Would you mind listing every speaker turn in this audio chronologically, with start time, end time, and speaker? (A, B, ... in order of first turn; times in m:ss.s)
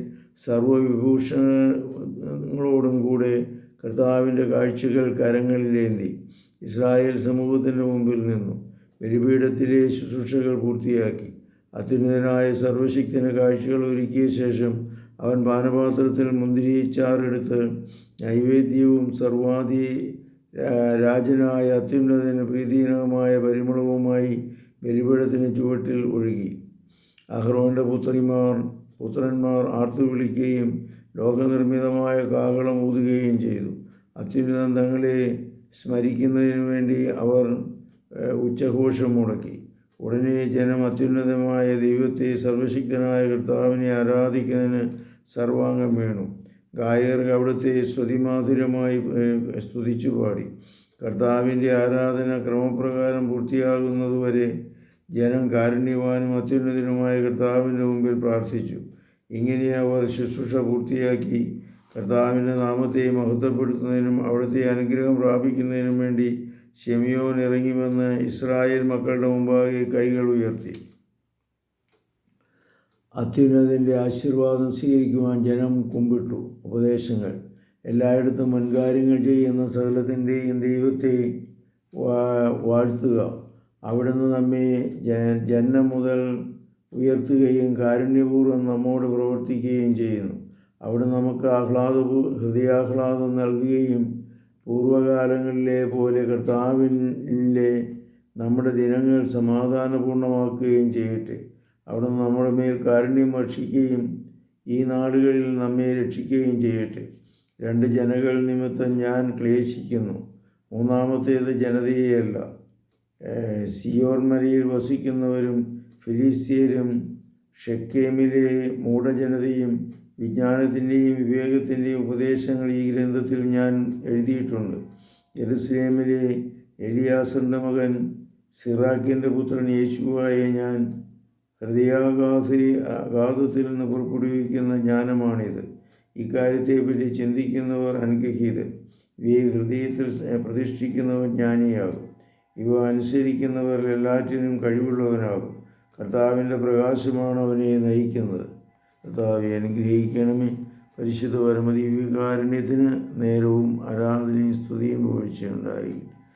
0:00.4-0:17.6 A
0:18.2-0:26.5 A
0:27.3-0:35.2 A
0:35.7-0:37.5 A
0:38.1-0:50.5 A
0:51.0-0:54.5 A
0:55.1-0:58.8 A
0:59.3-1:10.8 A
1:13.2-1:21.3 A
1:22.0-1:23.3 A
1:23.9-1:26.2 A
1:26.9-1:34.1 A
1:34.6-1:37.7 A
1:38.4-1:44.0 A
1:44.7-1:47.1 A
1:47.6-1:50.2 A
1:50.7-1:52.4 A
1:53.2-1:56.9 A
1:57.6-2:04.8 A
2:05.4-2:08.0 A
2:08.5-2:10.8 A
2:11.6-2:15.6 A
2:16.2-2:18.7 A
2:19.2-2:22.0 A
2:22.6-2:28.5 A
2:29.0-2:36.1 A